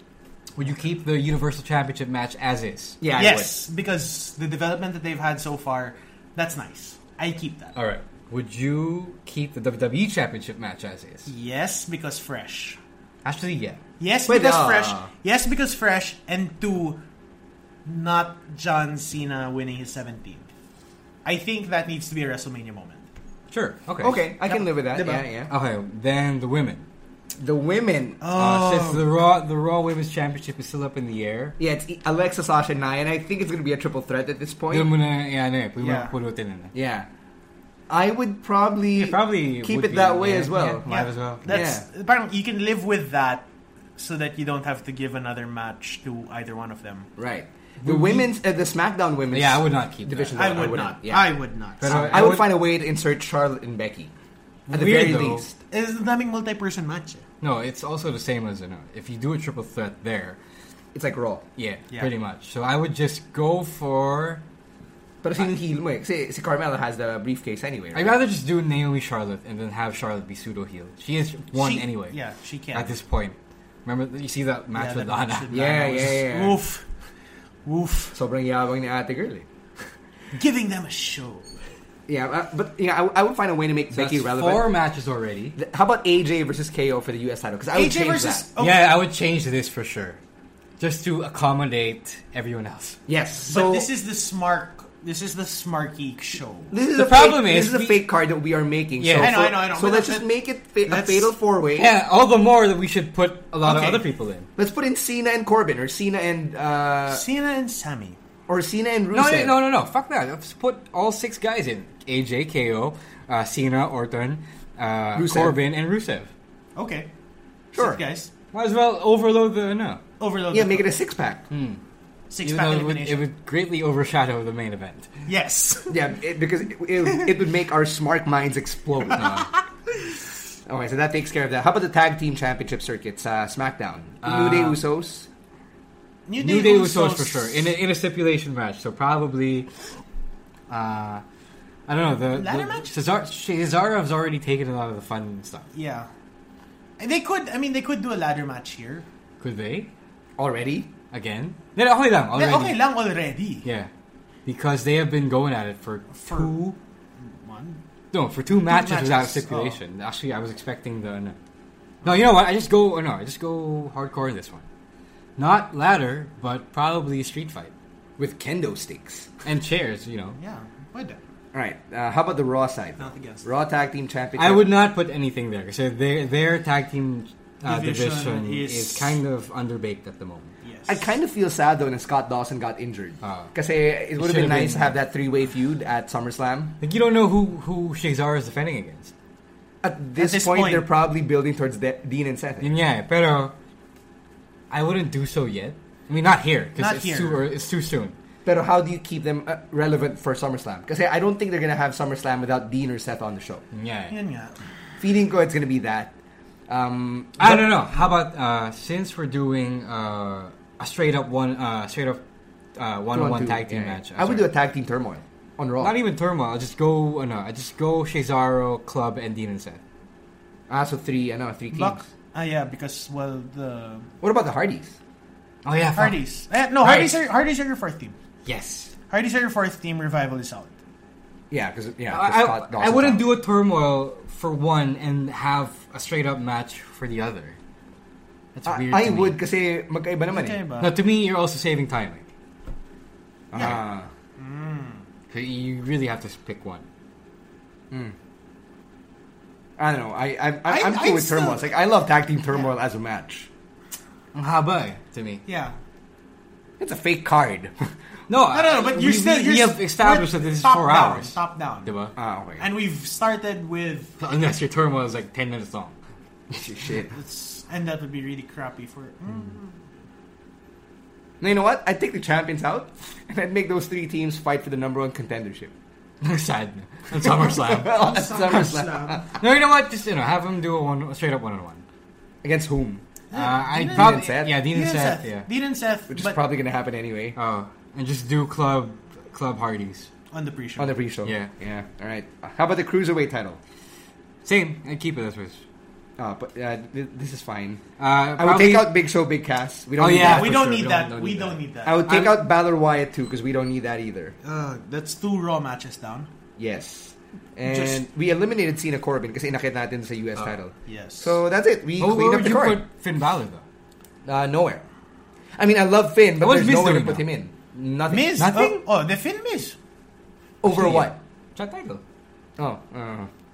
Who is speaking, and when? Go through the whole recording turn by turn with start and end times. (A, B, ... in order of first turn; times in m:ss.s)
0:00.6-0:03.0 A
0:03.0-0:03.6 B
0:03.1-0:07.7 C
0:07.7-0:11.3 A
0:11.3-0:12.8 C
0:13.2-0:13.8 A
0:14.0-0:17.0 C
0:14.3-0:15.1 B
0:17.9-0:20.5 C
0:21.2-0:23.1 C
0:23.5-0:24.2 A
0:24.0-0:25.5 B
0:24.4-0:25.3 C
0:25.5-0:26.8 A
0:27.4-0:28.2 B
0:28.2-0:29.1 C
0:28.3-0:31.6 A
0:31.6-0:34.9 B
0:34.7-0:36.7 A
0:35.8-0:36.1 C
0:36.7-0:37.1 B
0:37.9-0:41.8 B
0:38.9-0:41.6 A
0:40.8-0:43.4 C
0:44.0-0:47.1 C
0:47.2-0:54.1 B
0:47.8-0:48.2 A
0:49.3-0:50.6 A
0:50.3-0:52.4 C
0:51.8-0:52.5 A
0:54.7-0:55.5 A
0:54.7-0:55.6 B
0:55.7-0:57.2 C
0:57.4-1:00.4 A
1:00.9-1:01.4 B
1:01.6-1:04.4 A
1:05.2-1:08.2 B
1:07.9-1:12.2 A
1:11.5-1:13.0 C
1:12.7-1:16.1 A
1:14.7-1:16.8 C
1:15.5-1:16.6 B
1:17.6-1:18.2 C
1:18.1-1:19.5 B
1:20.3-1:21.6 C
1:22.1-1:24.8 B
1:23.9-1:25.6 A
1:25.6-1:28.4 B
1:27.7-1:29.0 C
1:28.6-1:30.2 A
1:30.8-1:33.0 A
1:33.1-1:33.9 B
1:33.4-1:36.7 C
1:36.7-1:41.9 B
1:36.9-1:38.0 A
1:39.0-1:39.4 A
1:39.2-1:40.3 C
1:40.8-1:41.3 C
1:41.8-1:44.5 A
1:43.6-1:44.0 C
1:44.6-1:47.2 B
1:47.1-1:48.2 C
1:48.5-1:49.6 B
1:49.1-1:56.3 A
1:55.2-1:55.6 B
1:56.8-1:57.1 C
1:57.7-1:58.3 C
1:57.7-1:58.0 B
1:58.5-2:00.0 A
2:00.2-2:00.9 C
2:00.5-2:01.4 B
2:01.5-2:01.8 A
2:02.3-2:03.2 C
2:02.4-2:05.1 A
2:05.3-2:06.0 C
2:05.9-2:09.4 B
2:09.2-2:09.4 A
2:10.6-2:15.3 B
2:14.2-2:14.8 A
2:16.3-2:17.6 C
2:16.4-2:19.7 A
2:20.7-2:21.2 A
2:21.9-2:25.7 A
2:22.2-2:23.0 C
2:25.7-2:26.1 C
2:27.0-2:29.0 C
2:29.4-2:29.9 A
2:30.4-2:30.9 B
2:31.1-2:32.8 A
2:32.3-2:33.7 C
2:33.6-2:33.9 A
2:34.4-2:36.7 A
2:36.1-2:37.8 C
2:38.1-2:41.4 A
2:38.5-2:39.8 C
2:42.0-2:42.3 C
2:42.0-2:44.6 A
2:45.4-2:47.7 A
2:48.2-2:49.3 B
2:49.4-2:50.4 A
2:50.4-2:51.2 C
2:51.5-2:54.7 B
2:53.0-2:53.5 C
2:54.4-3:00.5 A
2:57.6-2:59.2 C
3:00.6-3:01.0 C
3:00.9-3:06.8 B
3:03.2-3:03.5 A
3:04.2-3:05.0 A
3:06.8-3:09.1 A
3:09.8-3:12.7 B
3:10.2-3:10.9 C
3:12.6-3:13.5 A
3:14.7-3:18.2 A
3:16.8-3:17.5 C
3:18.4-3:23.6 B
3:23.7-3:24.2 A
3:24.1-3:24.6 C
3:25.0-3:26.1 B
3:26.7-3:27.9 B
3:27.4-3:32.2 A
3:32.7-3:34.5 A
3:33.1-3:36.0 B
3:35.8-3:39.8 A
3:40.7-3:42.0 B
3:41.7-3:44.1 C
3:44.2-3:45.0 B
3:45.6-3:46.2 A
3:46.0-3:48.2 C
3:46.8-3:47.2 A
3:48.4-3:48.9 A
3:49.1-3:50.7 C
3:51.5-3:53.3 B
3:52.1-3:57.6 A
3:58.6-3:59.4 A
3:58.7-4:00.6 B
4:00.3-4:00.9 C
4:00.8-4:02.3 A
4:03.5-4:04.1 B
4:03.6-4:03.8 C
4:04.4-4:05.0 C
4:05.3-4:06.8 A
4:09.8-4:13.5 B
4:10.7-4:11.7 C
4:14.3-4:15.4 A
4:15.4-4:15.7 C
4:16.8-4:17.9 B
4:18.3-4:22.1 A
4:18.5-4:22.0 C
4:22.2-4:22.7 B
4:22.6-4:24.2 C
4:24.2-4:26.0 A
4:26.5-4:27.1 B
4:27.1-4:29.8 C
4:31.4-4:35.7 B
4:36.2-4:38.0 A
4:37.1-4:39.4 B
4:37.8-4:39.2 C
4:39.4-4:41.8 A
4:42.4-4:43.0 B
4:43.3-4:46.4 C
4:43.3-4:45.5 A
4:43.9-4:44.6 B
4:46.1-4:47.4 B
4:47.3-4:50.1 A
4:50.3-4:51.0 C
4:50.8-4:53.6 B
4:51.2-4:51.5 A
4:54.4-4:55.6 A
4:56.2-4:57.8 B
4:58.0-4:58.9 A
4:58.4-5:01.0 B
5:00.0-5:02.4 A
5:00.2-5:02.1 C
5:01.8-5:04.4 B
5:04.4-5:06.3 C
5:06.6-5:12.8 B
5:07.7-5:08.0 C
5:10.9-5:11.4 C
5:12.0-5:13.6 A
5:14.2-5:14.8 B
5:15.6-5:18.4 B
5:16.4-5:17.2 A
5:18.1-5:19.8 C
5:18.4-5:18.8 A
5:20.6-5:21.2 B
5:20.7-5:22.0 A
5:22.6-5:23.3 B